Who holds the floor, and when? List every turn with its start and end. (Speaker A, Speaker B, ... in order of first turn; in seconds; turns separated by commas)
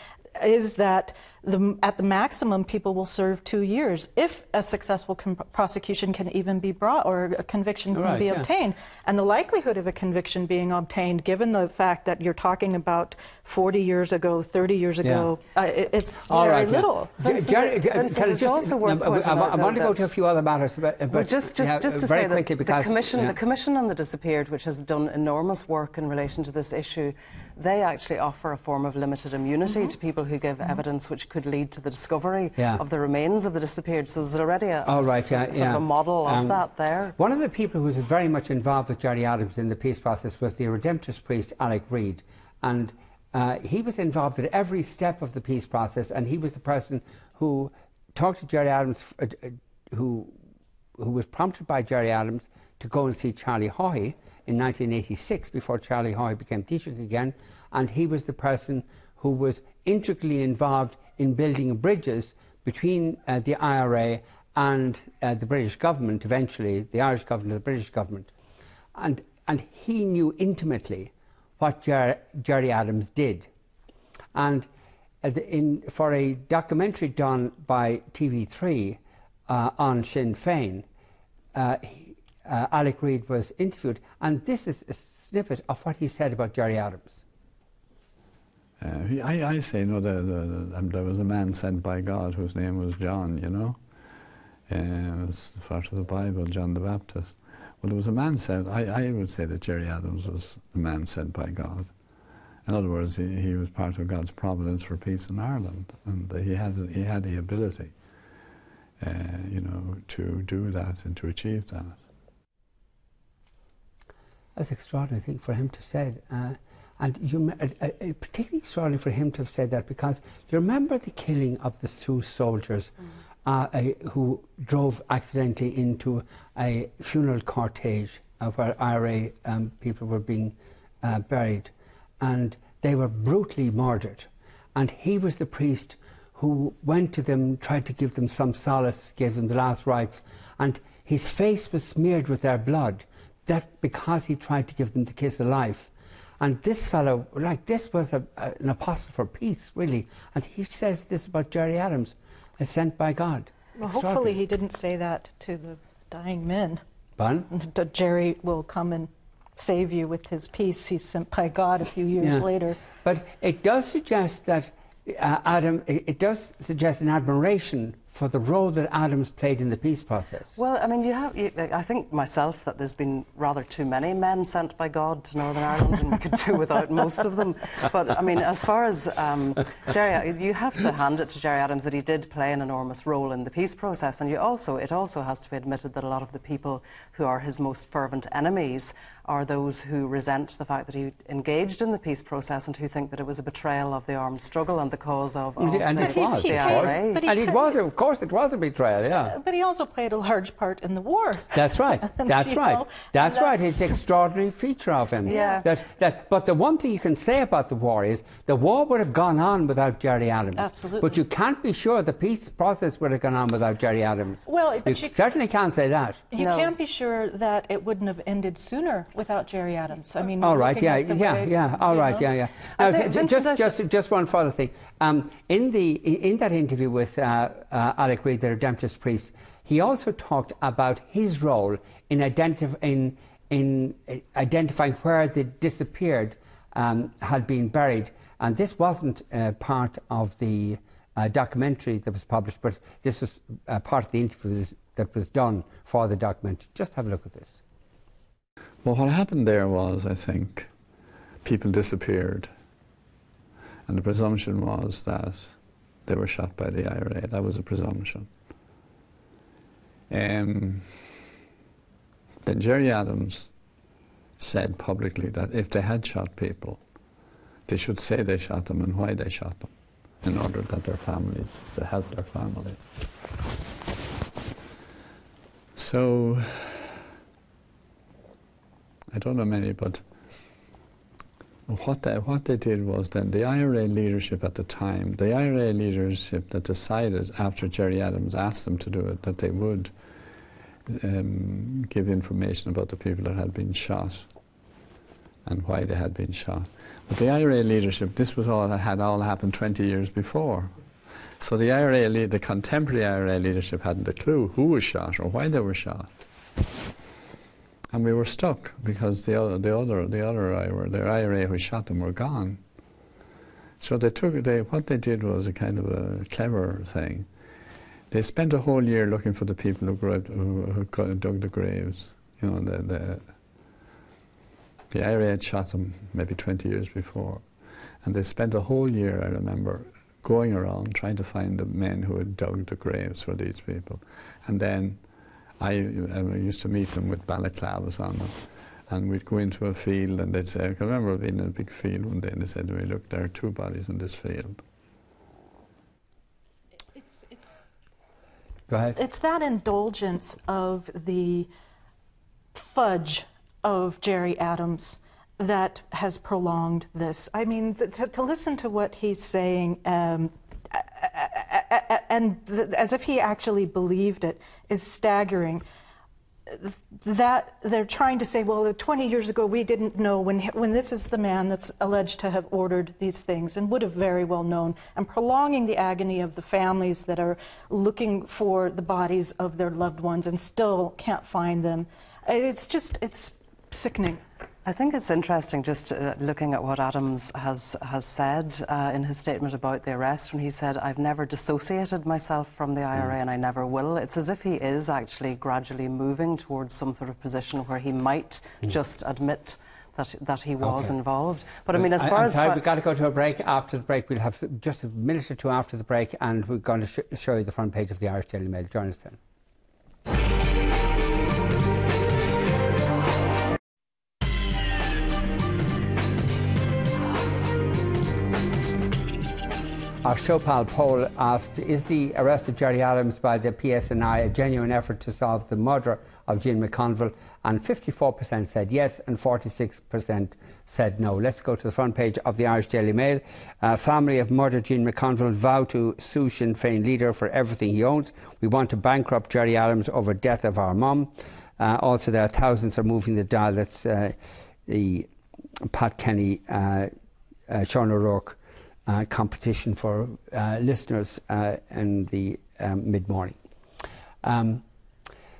Speaker A: 0.3-17.2, Speaker B: 7.9-8.5, Speaker B: 15.0-15.3, Speaker B: 16.3-23.4, Speaker C: 17.2-20.1, Speaker C: 21.1-37.1, Speaker B: 32.6-32.8, Speaker B: 34.8-36.6, Speaker B: 37.1-50.4, Speaker B: 51.0-68.3, Speaker B: 69.0-73.5, Speaker B: 74.3-74.7, Speaker B: 75.2-80.9, Speaker B: 81.5-87.2, Speaker D: 88.8-108.1, Speaker D: 109.0-112.0, Speaker B: 114.6-122.9, Speaker B: 123.4-154.4, Speaker A: 153.8-156.8, Speaker B: 157.2-157.5, Speaker A: 157.5-162.8, Speaker B: 162.2-170.6, Speaker C: 170.6-197.2, Speaker B: 195.6-199.3, Speaker A: 196.0-197.8, Speaker A: 199.2-203.9, Speaker B: 201.5-216.2, Speaker A: 205.2-205.7, Speaker C: 205.3-205.6, Speaker A: 210.5-211.2, Speaker A: 214.4-215.2, Speaker A: 216.3-222.3, Speaker C: 216.3-216.7, Speaker B: 220.4-247.6, Speaker C: 222.8-223.7, Speaker D: 248.8-250.7, Speaker D: 251.4-252.5, Speaker D: 253.8-258.3, Speaker D: 260.1-261.2, Speaker D: 262.4-263.5, Speaker D: 264.4-266.8, Speaker D: 267.7-272.9, Speaker D: 275.8-277.0, Speaker D: 279.1-280.6, Speaker D: 281.7-294.3, Speaker D: 295.4-306.1, Speaker D: 307.9-312.6, Speaker D: 313.8-317.4, Speaker D: 318.1-323.4, Speaker D: 324.9-344.6, Speaker B: 348.7-349.0, Speaker A: 348.9-351.5, Speaker A: 352.5-365.6, Speaker A: 366.5-384.2, Speaker C: 384.6-402.6, Speaker B: 400.6-400.9, Speaker B: 401.7-409.2, Speaker B: 420.0-445.1, Speaker B: 445.7-446.9, Speaker B: 447.5-453.4, Speaker B: 454.2-454.6